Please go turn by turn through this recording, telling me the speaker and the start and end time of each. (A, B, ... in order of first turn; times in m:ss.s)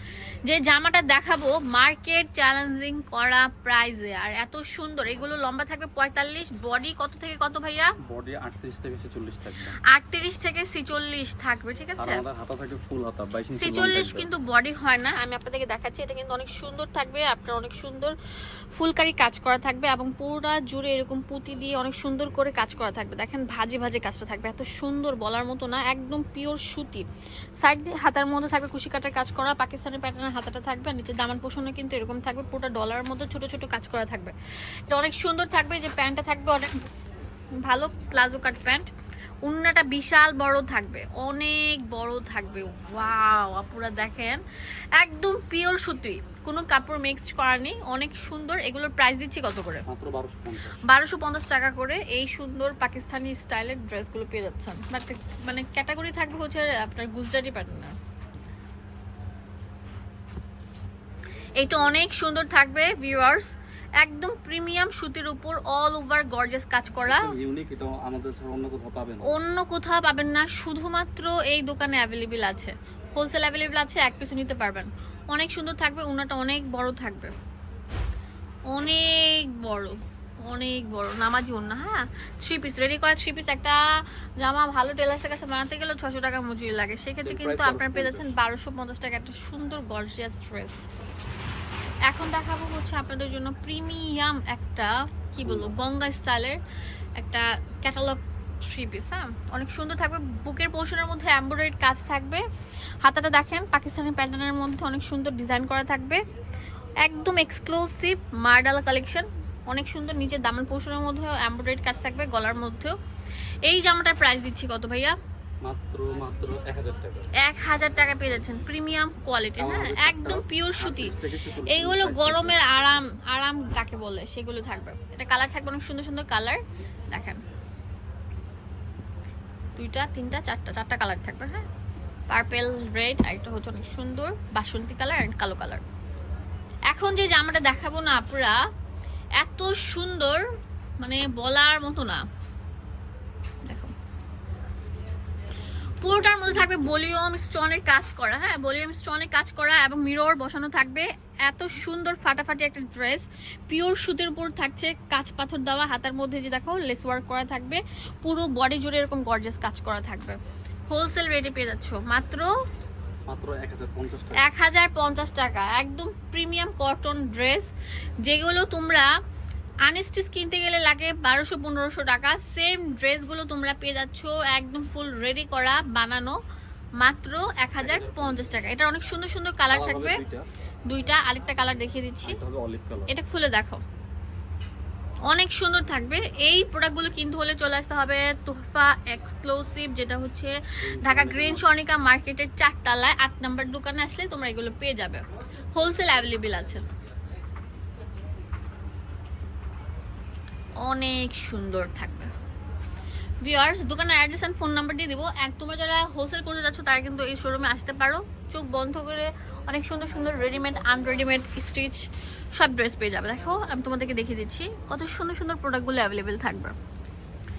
0:00.4-0:08.0 A
0:08.0-0:09.8 B
0:09.9-0:12.2 A
0:12.0-0:14.3 B
0:13.6-0:18.2 A
0:18.8-0:27.0 A
0:27.6-0:34.3 A
0:34.9-0:36.8 A
0:37.6-0:38.9 A
0:39.4-0:44.4 A
0:45.0-0:49.8 A
0:49.9-0:50.8 B
0:50.9-0:58.0 A
1:01.6-1:07.3 A
1:07.0-1:09.4 B
1:09.3-1:17.3 A
1:18.7-1:20.0 A
1:20.5-1:23.8 A
1:24.4-1:30.8 A
1:27.2-1:28.3 B
1:32.1-1:36.6 A
1:35.4-1:35.8 B
1:37.2-1:42.4 A
1:43.0-1:46.2 A
1:47.0-1:53.0 A
1:53.7-1:55.2 A
1:55.6-1:57.3 B
1:57.4-2:01.1 A
1:59.6-2:02.6 B
2:01.7-2:06.6 A
2:07.1-2:07.4 A
2:09.8-2:11.7 A
2:12.3-2:15.8 A
2:16.9-2:18.6 A
2:19.4-2:20.4 A
2:21.0-2:22.2 A
2:23.7-2:23.9 A
2:26.0-2:40.4 A
2:26.0-2:27.0 B
2:40.9-2:42.5 A
2:43.3-2:44.5 B
2:44.4-2:47.7 A
2:48.2-2:49.1 A
2:49.8-2:56.4 A
2:57.0-3:00.2 A
2:57.8-2:58.5 B
2:59.7-3:00.5 B
3:00.9-3:02.4 A
3:02.2-3:03.1 B
3:03.1-3:03.8 A
3:05.3-3:16.8 A
3:10.8-3:11.7 B
3:20.8-3:22.3 A
3:23.4-3:36.8 A